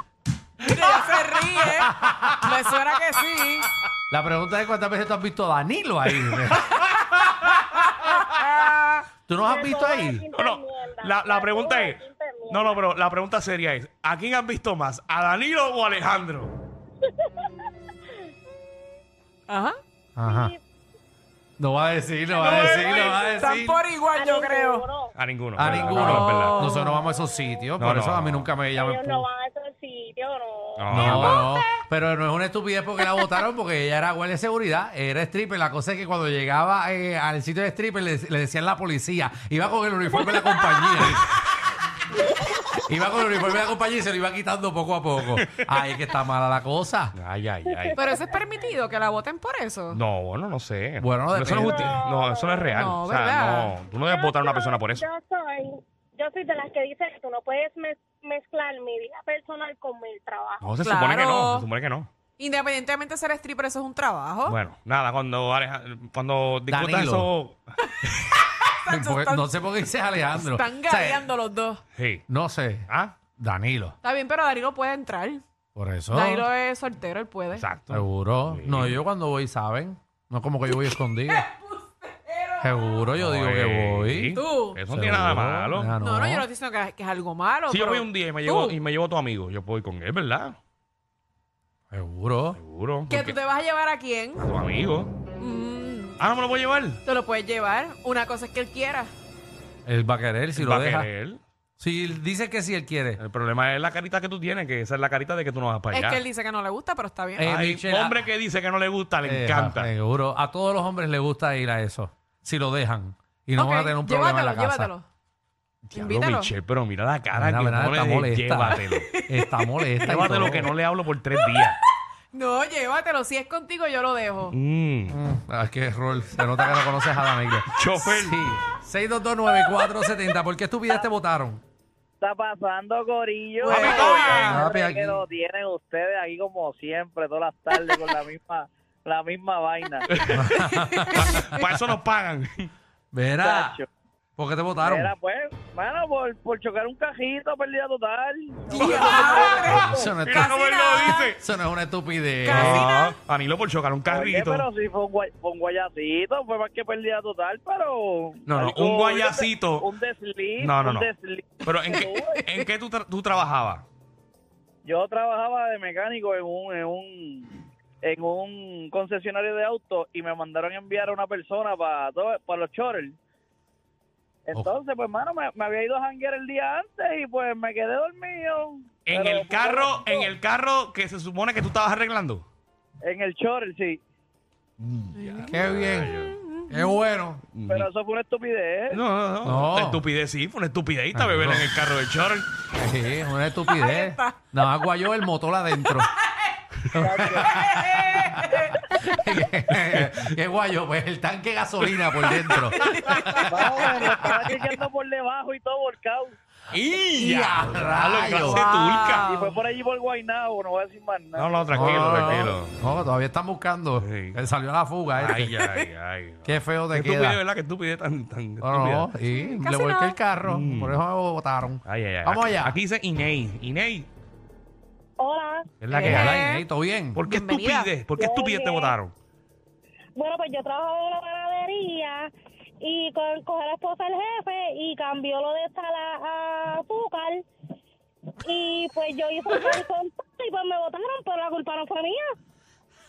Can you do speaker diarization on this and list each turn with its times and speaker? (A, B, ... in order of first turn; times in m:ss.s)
0:00.6-0:03.7 A
0:01.8-0:02.5 B
0:04.1-0:06.7 B
0:06.1-0:08.2 C
0:08.0-0:09.0 A
0:09.3-0:10.2 B
0:09.4-0:12.8 D
0:10.3-0:16.6 C
0:19.5-0:19.8 A
0:20.2-0:20.5 B
0:20.2-0:20.6 D
0:21.6-0:23.8 B
0:22.3-0:23.5 D
0:22.4-0:23.2 C
0:23.3-0:24.9 A
0:24.1-0:25.1 D
0:25.1-0:26.6 C
0:25.6-0:29.2 B
0:26.0-0:27.1 A
0:27.8-0:28.5 C
0:28.7-0:31.1 D
0:30.8-0:31.4 C
0:30.9-0:41.4 B
0:31.1-0:31.7 A
0:42.6-0:47.2 B
0:47.1-0:48.0 C
0:47.9-0:48.2 D
0:48.0-0:50.0 A
0:49.9-0:55.0 C
0:51.0-0:51.9 B
0:51.6-0:52.8 D
0:52.7-0:53.8 A
0:54.0-1:00.7 D
1:00.6-1:02.1 C
1:00.8-1:01.7 A
1:02.4-1:04.6 A
1:04.5-1:08.2 C
1:06.7-1:07.3 B
1:08.7-1:09.5 A
1:08.9-1:11.2 B
1:10.3-1:11.8 A
1:12.0-1:12.2 C
1:12.3-1:14.0 B
1:12.9-1:13.2 C
1:14.0-1:15.4 A
1:15.7-1:16.5 B
1:16.1-1:17.7 A
1:17.5-1:19.0 C
1:17.9-1:21.4 B
1:20.7-1:23.0 A
1:22.6-1:26.4 B
1:23.2-1:25.9 C
1:24.3-1:24.8 A
1:26.0-1:28.8 A
1:27.7-1:30.6 C
1:31.9-1:32.6 B
1:32.6-1:33.4 C
1:33.1-1:34.5 A
1:34.4-1:35.1 C
1:35.4-1:36.2 A
1:36.2-1:37.0 C
1:37.0-1:39.1 A
1:39.8-1:41.1 B
1:40.5-1:41.4 C
1:41.8-1:43.2 B
1:43.2-1:46.2 C
1:45.9-1:47.5 A
1:47.4-1:48.2 B
1:47.5-1:49.9 C
1:49.2-1:54.9 B
1:53.5-1:55.0 A
1:55.9-1:59.1 C
1:55.9-1:56.5 A
1:57.3-2:00.7 B
1:59.0-1:59.8 A
2:00.0-2:01.8 C
2:01.3-2:01.7 A
2:02.3-2:04.6 A
2:04.5-2:05.2 C
2:05.1-2:11.6 B
2:07.7-2:08.4 C
2:12.2-2:20.0 E
2:13.6-2:14.6 A
2:13.7-2:14.5 C
2:14.4-2:15.2 B
2:17.8-2:18.0 A
2:20.1-2:22.7 C
2:20.3-2:21.5 B
2:20.5-2:21.6 A
2:23.1-2:23.8 B
2:23.4-2:23.9 E
2:24.4-2:25.1 B
2:24.8-2:30.1 E
2:28.7-2:31.3 A
2:29.6-2:30.5 B
2:30.0-2:31.4 C
2:31.0-2:32.8 B
2:32.4-2:33.1 A
2:32.5-2:34.7 C
2:34.1-2:42.4 E
2:38.4-2:39.9 C
2:40.6-2:41.1 C
2:41.6-2:43.8 C
2:41.9-2:42.6 A
2:44.8-2:47.5 E
2:48.0-2:53.2 E
2:54.4-3:00.3 E
2:59.0-3:02.4 C
3:03.0-3:04.0 E
3:04.8-3:06.3 C
3:05.1-3:05.5 A
3:05.5-3:06.1 B
3:06.1-3:07.0 A
3:06.7-3:07.4 B
3:07.5-3:07.9 C
3:07.7-3:09.0 E
3:08.9-3:12.5 C
3:09.4-3:10.0 B
3:11.1-3:11.7 B
3:12.7-3:16.1 B
3:13.6-3:14.4 A
3:15.8-3:16.5 A
3:16.9-3:24.4 B
3:17.0-3:17.5 E
3:17.4-3:18.7 A
3:19.7-3:20.3 C
3:22.5-3:24.6 A
3:23.5-3:26.4 E
3:26.7-3:29.4 C
3:27.2-3:28.6 B
3:28.5-3:29.5 A
3:29.2-3:32.3 E
3:31.3-3:32.7 C
3:31.7-3:35.6 B
3:34.0-3:34.4 C
3:35.2-3:39.1 C
3:36.4-3:37.4 B
3:38.6-3:42.8 B
3:39.2-3:40.2 A
3:40.4-3:41.0 C
3:41.8-3:44.1 C
3:45.2-3:46.2 D
3:45.8-3:46.4 C
3:45.9-3:46.7 A
3:46.0-3:47.2 B
3:47.1-3:49.1 C
3:47.2-3:48.0 A
3:48.1-3:48.9 D
3:50.2-3:57.4 D
3:58.4-4:02.2 D
3:59.5-3:59.8 A